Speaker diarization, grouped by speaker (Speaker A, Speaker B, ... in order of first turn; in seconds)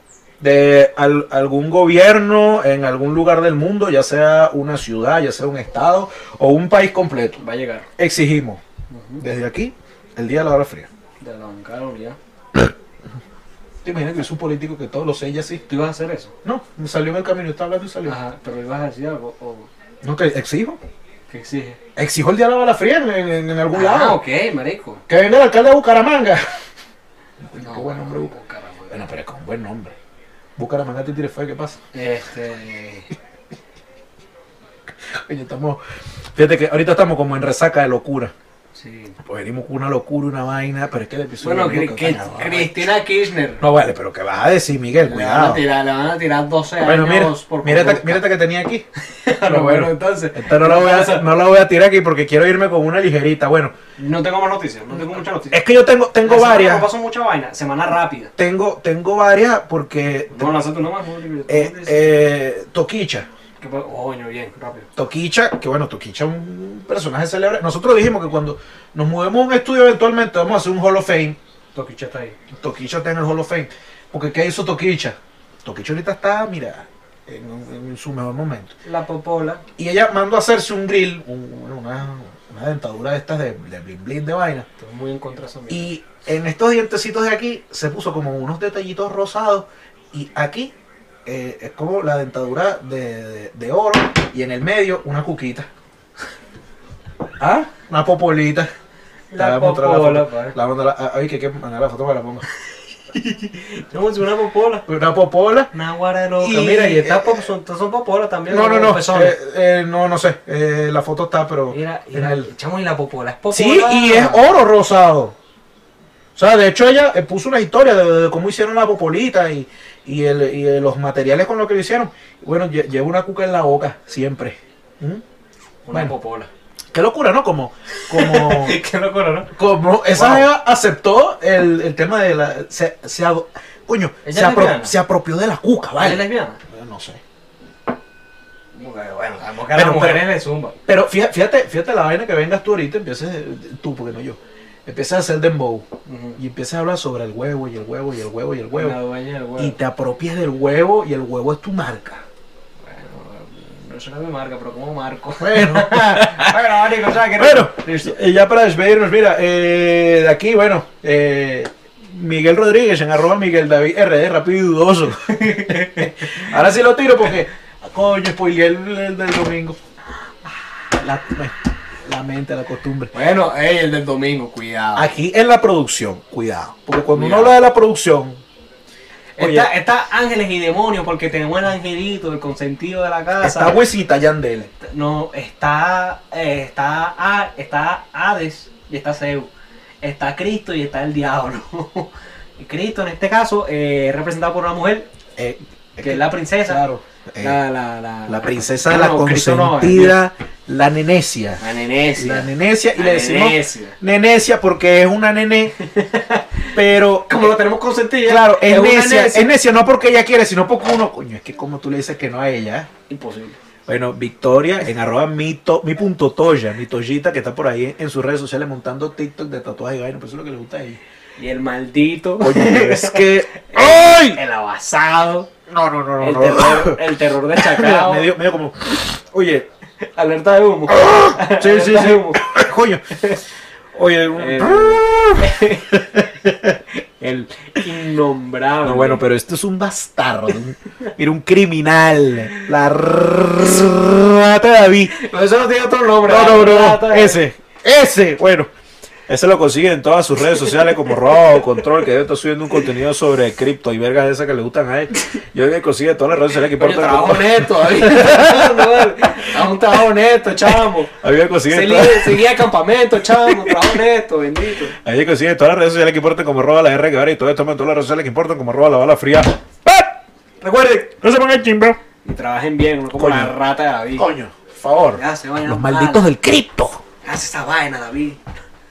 Speaker A: 0.4-7.4, 8.0-8.6, 9.2-10.9, 13.8-15.6, 16.4-18.2, 20.0-20.8, 22.0-24.2, 25.1-26.4, 27.5-28.3, 28.9-29.9, 30.6-31.8, 35.1-35.8, 36.4-38.3, 39.3-42.9, 43.6-45.6, 46.8-48.8, 49.4-53.7, 55.5-56.9, 58.4-60.5, 61.5-63.3, 65.0-71.4, 72.5-78.7, 79.8-84.7, 85.7-90.7, 91.3-95.7, 97.4-98.7, 99.4-102.5, 104.9-105.7, 106.4-107.5, 108.5-112.5, 113.5-115.3, 116.4-125.2, 126.9-128.8, 129.6-137.2, 139.7-140.2, 140.9-145.8, 146.4-149.0, 149.6-152.2, 155.4-169.8, 170.9-171.5, 172.1-173.1, 174.9-178.4, 179.4-179.7, 183.4-184.7, 195.4-197.6, 198.3-201.6, 202.2-205.7, 206.7-207.5, 208.2-212.9, 213.9-221.0, 222.4-224.4, 225.7-227.0, 227.6-229.7, 230.9-233.0, 233.9-236.8, 238.8-245.1, 246.2-248.7, 249.3-259.6, 260.4-262.5, 263.3-264.0, 265.0-270.1, 270.9-272.0, 273.1-273.6, 274.1-277.0
Speaker B: 7.4-7.9, 8.9-9.2, 11.2-12.2, 15.7-16.3, 18.1-19.7, 21.3-21.8, 23.7-25.0, 27.6-29.1, 31.9-33.1, 38.8-39.2, 41.4-43.6, 45.0-48.3, 49.1-51.3, 54.0-55.6, 56.2-58.3, 60.3-62.3, 63.6-64.9, 71.7-72.4, 78.8-79.6, 84.8-85.9, 99.3-100.6, 103.2-104.8, 105.7-109.3, 111.7-114.5, 125.9-126.5, 128.1-129.5, 130.1-130.5, 134.2-134.9, 136.0-136.6, 138.8-140.8, 146.1-146.4, 148.7-149.8, 152.8-158.1, 165.3-166.5, 173.1-175.2, 177.1-177.6, 179.4-183.9, 184.8-189.5, 190.0-195.1, 196.0-196.8, 197.4-200.2, 201.6-204.0, 205.8-206.7, 207.3-209.5, 213.1-213.6, 221.4-225.5, 226.2-228.3, 230.1-232.6, 233.2-233.4, 234.3-236.1, 236.9-239.2, 245.1-247.4, 250.4-251.9, 256.7-264.9, 270.6-271.0, 272.2-274.3, 275.1-276.3, 277.2-278.4